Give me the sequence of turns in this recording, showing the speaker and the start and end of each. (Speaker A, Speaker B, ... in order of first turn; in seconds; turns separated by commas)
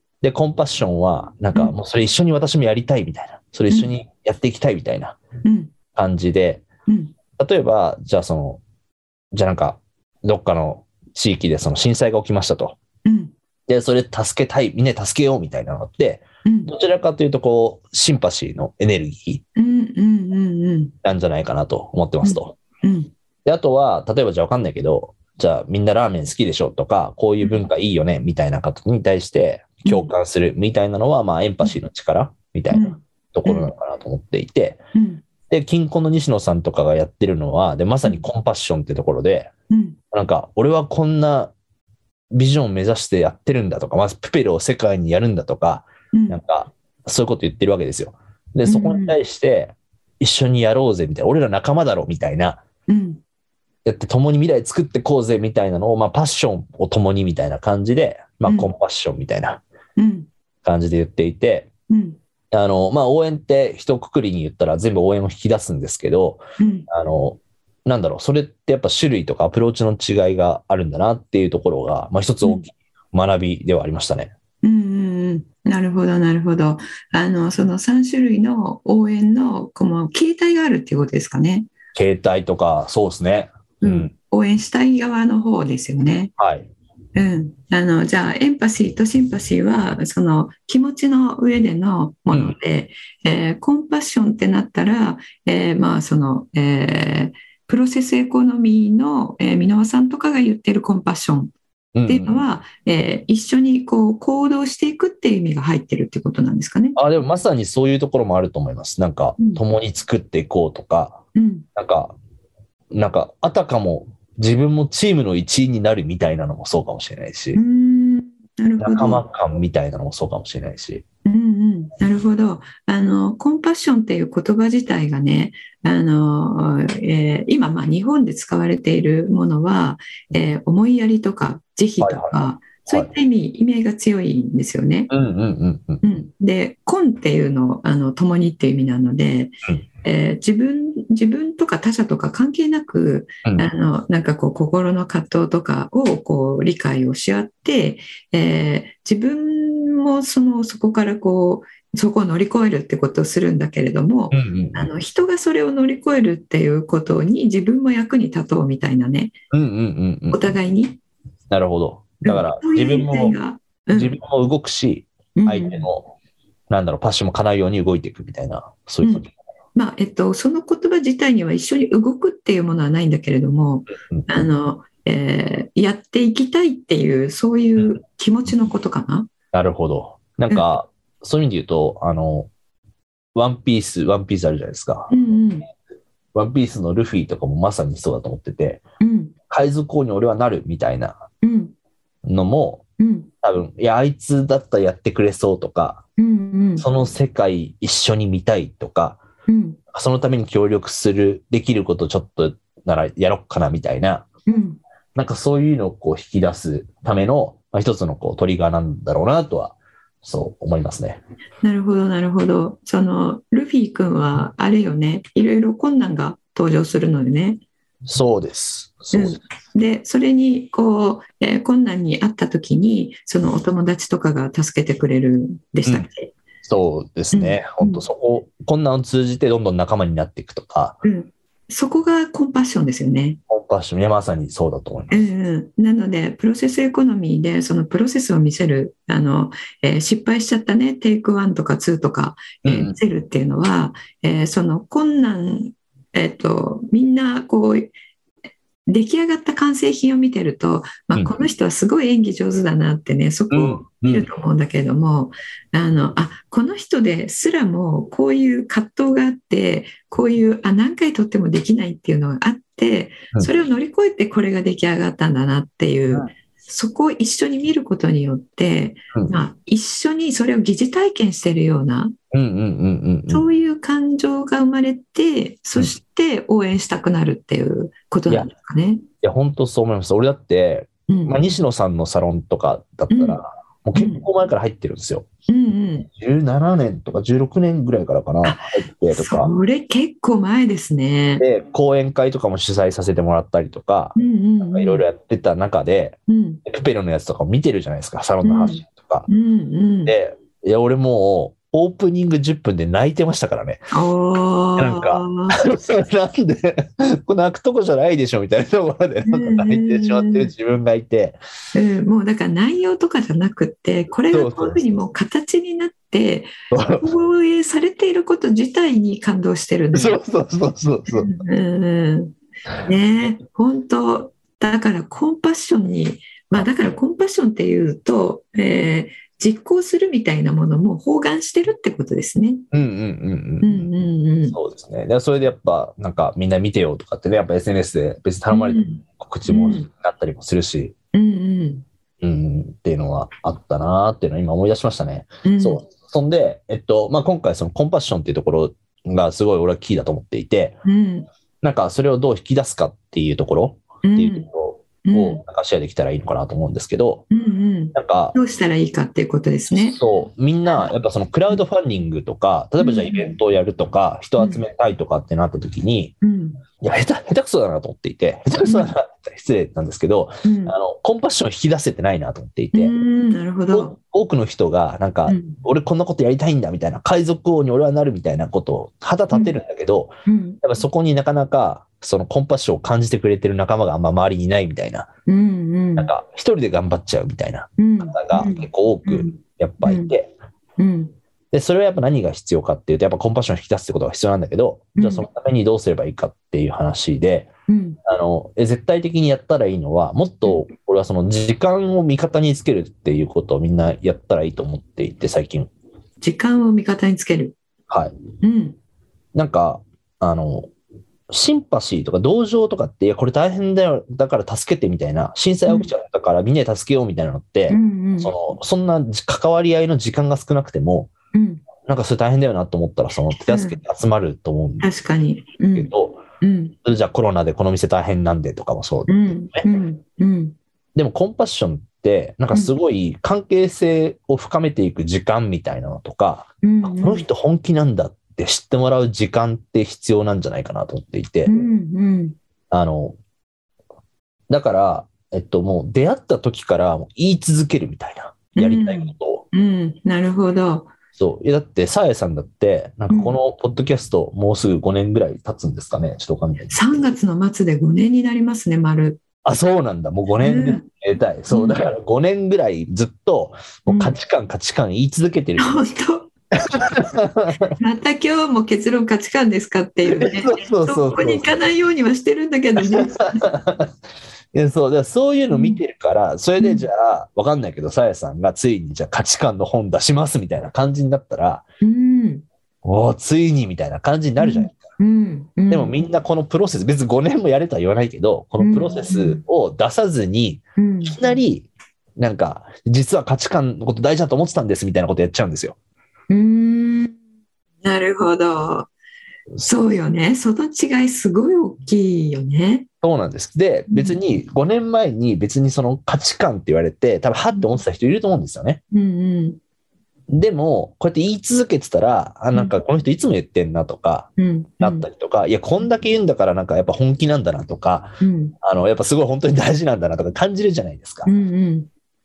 Speaker A: 0.2-5.2, Speaker B: 5.4-5.7, Speaker A: 5.9-6.6, Speaker B: 6.9-7.1, Speaker A: 7.4-8.6, Speaker A: 9.3-12.8, Speaker B: 13.0-13.3, Speaker A: 13.7-19.4, Speaker B: 16.4-16.7, Speaker B: 19.6-20.9, Speaker A: 21.0-22.6, Speaker B: 22.2-23.1, Speaker A: 23.4-34.8, Speaker B: 29.8-30.1, Speaker B: 32.7-33.7, Speaker B: 34.9-35.2, Speaker A: 35.5-39.5, Speaker B: 39.7-40.0, Speaker A: 40.1-41.5, Speaker A: 42.3-52.6, Speaker B: 46.1-46.4, Speaker B: 48.7-49.2, Speaker B: 52.9-53.2, Speaker A: 53.8-59.6, Speaker B: 58.5-58.7, Speaker B: 60.0-60.3, Speaker A: 60.6-61.7, Speaker B: 61.9-62.2, Speaker A: 62.5-74.3, Speaker B: 66.6-66.9, Speaker B: 74.6-81.7, Speaker A: 81.9-84.1, Speaker B: 83.8-86.3, Speaker A: 86.4-86.7, Speaker B: 87.1-101.5, Speaker A: 92.3-92.5, Speaker A: 101.9-102.4, Speaker B: 102.1-107.0, Speaker A: 107.0-111.2, Speaker B: 111.3-111.7, Speaker A: 111.7-112.1, Speaker A: 112.9-117.6, Speaker B: 117.5-119.2, Speaker A: 118.8-121.0, Speaker B: 121.2-135.1, Speaker A: 132.0-133.1, Speaker A: 135.1-136.0, Speaker B: 136.0-159.3, Speaker A: 154.3-154.9, Speaker A: 159.5-160.5, Speaker B: 160.3-161.0, Speaker A: 161.5-163.4, Speaker B: 162.2-164.2, Speaker A: 163.9-166.1, Speaker B: 165.3-165.9, Speaker A: 166.7-169.3, Speaker B: 169.0-179.3, Speaker A: 179.5-182.5, Speaker A: 183.3-185.1, Speaker B: 185.1-185.7, Speaker A: 186.3-188.8, Speaker B: 189.0-189.3, Speaker A: 189.5-191.2, Speaker B: 191.4-191.7, Speaker A: 192.2-192.8, Speaker B: 193.0-193.3, Speaker A: 193.4-196.0, Speaker B: 196.2-196.8, Speaker A: 196.8-199.2, Speaker B: 199.5-199.8, Speaker A: 199.9-204.3, Speaker B: 204.5-204.8, Speaker A: 205.1-211.2, Speaker B: 211.6-217.6, Speaker A: 218.1-219.4, Speaker B: 219.1-226.3, Speaker A: 226.6-231.0, Speaker B: 227.3-228.0, Speaker B: 231.0-233.4, Speaker A: 233.5-235.2, Speaker B: 235.1-247.9, Speaker A: 242.6-242.9, Speaker B: 248.9-272.1, Speaker A: 253.5-254.3, Speaker A: 272.3-273.4, Speaker B: 273.3-279.0, Speaker A: 279.2-285.2, Speaker B: 281.1-281.6, Speaker B: 283.1-283.4, Speaker B: 283.9-284.2, Speaker B: 285.5-286.1, Speaker A: 286.1-289.5, Speaker B: 288.4-291.4, Speaker A: 291.4-294.1, Speaker B: 294.1-295.0, Speaker A: 294.7-299.3, Speaker B: 296.3-296.6, Speaker B: 298.4-300.1, Speaker A: 300.1-303.9, Speaker B: 303.9-305.6, Speaker A: 304.8-311.4, Speaker B: 309.2-310.5, Speaker B: 311.7-320.2, Speaker A: 314.3-315.0, Speaker A: 316.7-317.1, Speaker A: 319.9-321.4, Speaker B: 321.1-332.6, Speaker A: 332.7-333.9, Speaker B: 333.6-334.6, Speaker A: 334.5-340.9, Speaker B: 338.5-339.9, Speaker B: 341.1-341.8, Speaker A: 342.2-350.8, Speaker B: 345.4-345.8, Speaker B: 350.8-351.3, Speaker A: 351.6-357.2, Speaker B: 354.0-354.5, Speaker B: 355.0-355.4, Speaker B: 357.3-360.0, Speaker A: 357.9-358.4, Speaker A: 359.7-366.1, Speaker B: 362.8-363.4, Speaker B: 364.4-364.6, Speaker B: 366.2-366.6, Speaker A: 366.8-372.9, Speaker B: 368.6-368.9, Speaker B: 370.4-370.7, Speaker B: 372.7-373.9, Speaker A: 373.7-385.1, Speaker B: 375.3-375.6, Speaker B: 380.2-380.6, Speaker B: 385.3-386.1, Speaker A: 386.0-390.3, Speaker B: 387.8-390.1, Speaker B: 390.8-391.1, Speaker A: 391.5-397.5, Speaker B: 394.9-395.3, Speaker B: 397.7-398.0, Speaker A: 398.1-405.7, Speaker B: 406.2-407.6, Speaker A: 407.9-408.1, Speaker B: 408.4-408.8, Speaker A: 409.3-410.7, Speaker A: 411.3-421.1, Speaker B: 417.7-418.3, Speaker B: 421.3-421.6, Speaker A: 421.8-424.9, Speaker B: 423.4-423.8, Speaker B: 424.8-426.7, Speaker A: 425.7-426.2, Speaker A: 426.8-429.6, Speaker B: 429.1-430.5, Speaker A: 430.9-441.6, Speaker B: 436.6-437.2, Speaker B: 441.5-442.4, Speaker A: 442.7-443.2, Speaker A: 444.5-449.4, Speaker B: 448.5-450.9, Speaker A: 451.1-457.0, Speaker B: 453.1-453.4, Speaker B: 456.7-459.2, Speaker A: 459.4-465.9, Speaker B: 460.4-460.9, Speaker B: 461.5-461.8, Speaker B: 463.9-464.1, Speaker B: 465.6-466.9, Speaker A: 466.8-467.7, Speaker B: 467.8-473.4, Speaker A: 470.2-471.5, Speaker A: 472.9-473.9, Speaker A: 474.5-481.6, Speaker B: 475.5-475.8, Speaker B: 476.6-476.9, Speaker B: 481.8-482.4, Speaker A: 482.8-484.8, Speaker B: 484.4-486.0, Speaker A: 485.7-495.8, Speaker B: 488.6-489.4, Speaker B: 490.8-491.4, Speaker B: 496.3-497.1, Speaker B: 497.8-498.9, Speaker B: 499.6-502.9, Speaker A: 503.0-508.8, Speaker B: 503.9-504.2, Speaker B: 507.5-507.8, Speaker B: 508.9-509.6, Speaker A: 510.3-521.3, Speaker B: 514.4-515.1, Speaker B: 518.2-518.5, Speaker B: 521.2-521.9